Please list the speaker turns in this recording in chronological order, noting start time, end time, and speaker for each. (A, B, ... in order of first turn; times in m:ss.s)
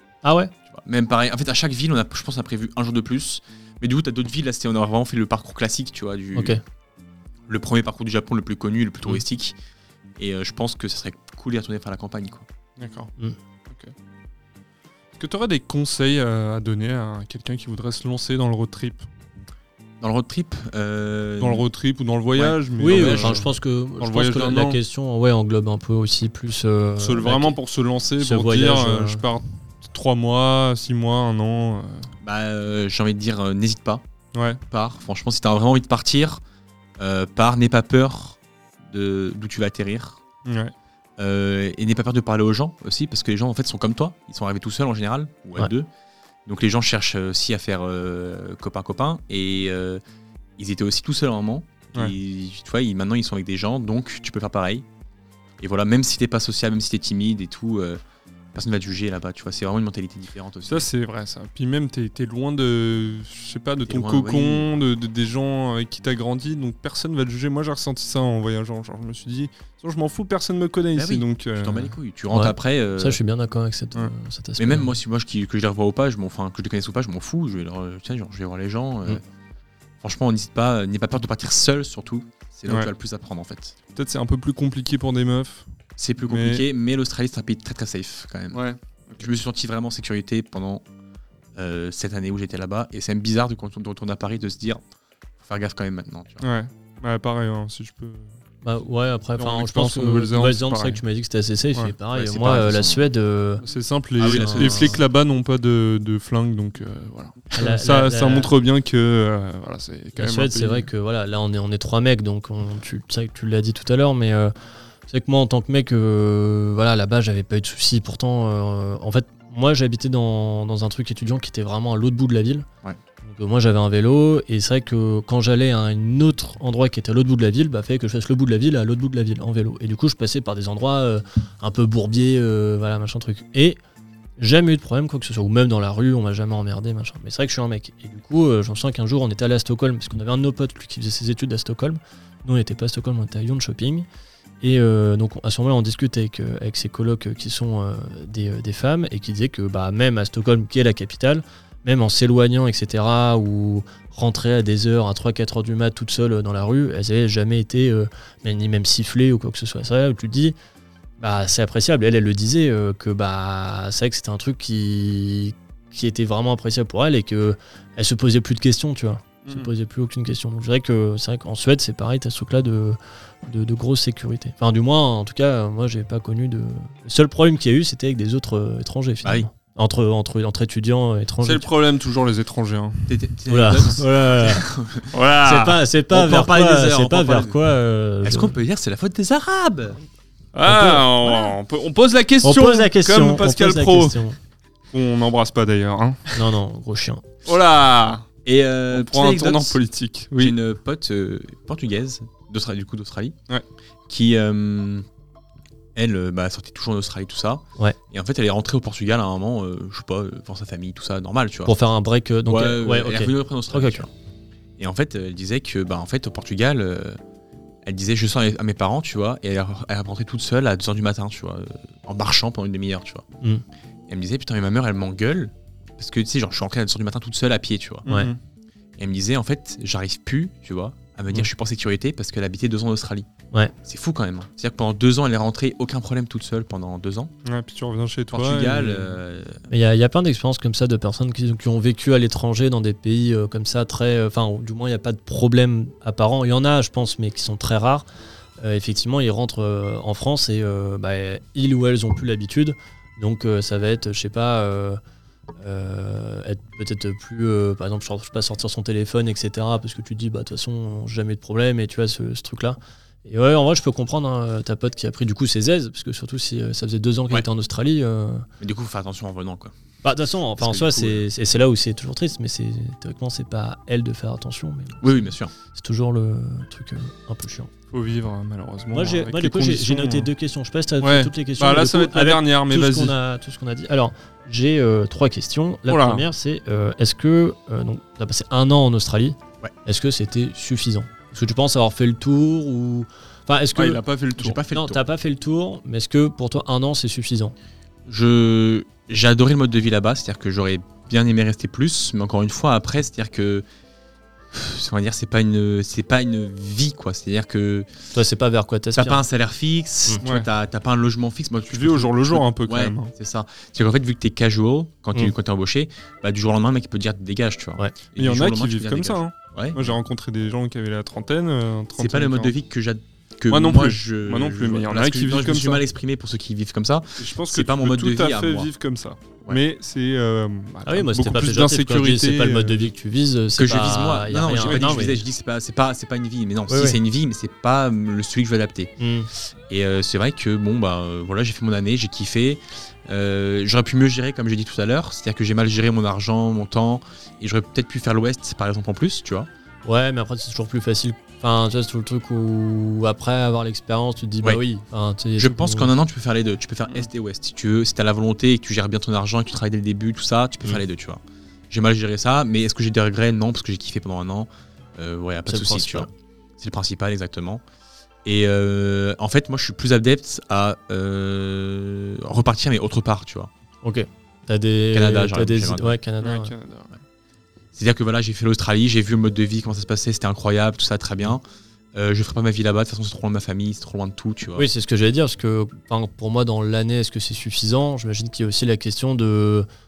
0:00.2-0:00.5 A
0:00.7-0:06.6 B
0:06.3-0:06.6 A
0:07.5-0:09.6 B
0:10.2-0:12.5 B
0:12.8-0:13.1 C
0:13.7-0:13.9 C
0:15.2-0:19.1 C
0:20.0-0:21.6 B
0:21.4-0:24.8 C
0:22.4-0:23.4 B
0:22.8-0:27.6 A
0:27.0-0:32.1 C
0:28.2-0:29.2 A
0:32.2-0:34.0 B
0:34.3-0:34.6 C
0:34.7-0:36.4 B
0:37.0-0:40.2 B
0:40.4-0:40.7 C
0:41.2-0:45.9 B
0:46.4-0:50.0 B
0:50.6-0:54.8 B
0:55.6-0:58.0 B
0:58.5-1:00.9 B
1:00.7-1:11.9 C
1:03.8-1:04.7 B
1:10.9-1:13.2 B
1:12.3-1:14.9 A
1:14.6-1:19.2 B
1:20.0-1:23.7 B
1:22.7-1:22.9 C
1:23.9-1:25.7 C
1:26.0-1:28.6 B
1:26.3-1:26.6 C
1:28.5-1:29.3 C
1:29.2-1:30.8 B
1:31.6-1:34.8 B
1:35.4-1:36.4 B
1:36.4-1:38.3 C
1:38.6-1:43.6 A
1:39.4-1:41.0 C
1:42.1-1:43.1 B
1:43.6-1:50.8 C
1:44.2-1:45.0 B
1:44.2-1:45.0 A
1:47.5-1:48.5 A
1:50.2-1:54.5 A
1:55.1-2:02.7 A
2:03.2-2:13.8 A
2:14.4-2:24.0 A
2:24.6-2:40.6 A
2:41.2-3:01.7 A
3:01.4-3:03.2 C
3:03.1-3:05.2 B
3:03.5-3:04.6 A
3:05.1-3:05.8 C
3:05.4-3:08.5 A
3:06.1-3:07.6 B
3:08.2-3:10.0 B
3:10.5-3:14.2 C
3:10.6-3:11.5 A
3:12.4-3:14.4 A
3:14.9-3:16.3 C
3:16.3-3:17.2 A
3:17.4-3:18.2 C
3:18.4-3:19.8 B
3:18.9-3:20.6 C
3:20.4-3:23.4 B
3:24.1-3:25.1 B
3:25.9-3:31.7 B
3:31.6-3:34.0 A
3:32.5-3:34.1 B
3:34.8-3:37.2 B
3:37.8-3:43.2 B
3:44.1-3:48.0 B
3:48.0-3:48.4 C
3:48.1-3:48.3 A
3:49.0-3:53.3 B
3:53.8-3:57.3 B
3:57.4-3:59.1 C
3:58.3-3:59.6 B
3:59.7-4:08.1 A
4:08.6-4:15.0 A
4:15.6-4:28.5 A
4:28.6-4:29.7 B
4:30.0-4:37.7 A
4:30.6-4:31.2 B
4:35.0-4:35.5 B
4:37.9-4:40.3 C
4:38.9-4:57.5 A
4:41.0-4:43.1 C
4:45.9-4:46.2 C
4:53.8-4:55.0 B
4:53.8-4:54.5 C
4:58.0-5:03.6 B
5:04.5-5:07.9 B
5:08.1-5:09.2 A
5:09.0-5:20.0 B
5:10.2-5:10.5 C
5:11.7-5:13.1 C
5:18.2-5:22.5 C
5:22.0-5:28.7 B
5:23.5-5:25.8 C
5:27.2-5:32.8 C
5:30.8-5:35.2 A
5:33.6-5:38.9 B
5:34.6-5:35.1 C
5:36.7-5:37.0 A
5:39.0-5:39.3 A
5:39.7-5:49.5 B
5:49.8-5:55.9 A
5:55.4-6:07.6 B
6:05.5-6:06.1 A
6:08.2-6:13.5 B
6:13.8-6:16.5 A
6:14.9-6:16.0 B
6:16.2-6:16.9 C
6:17.7-6:21.4 B
6:21.9-6:24.7 B
6:24.6-6:29.7 A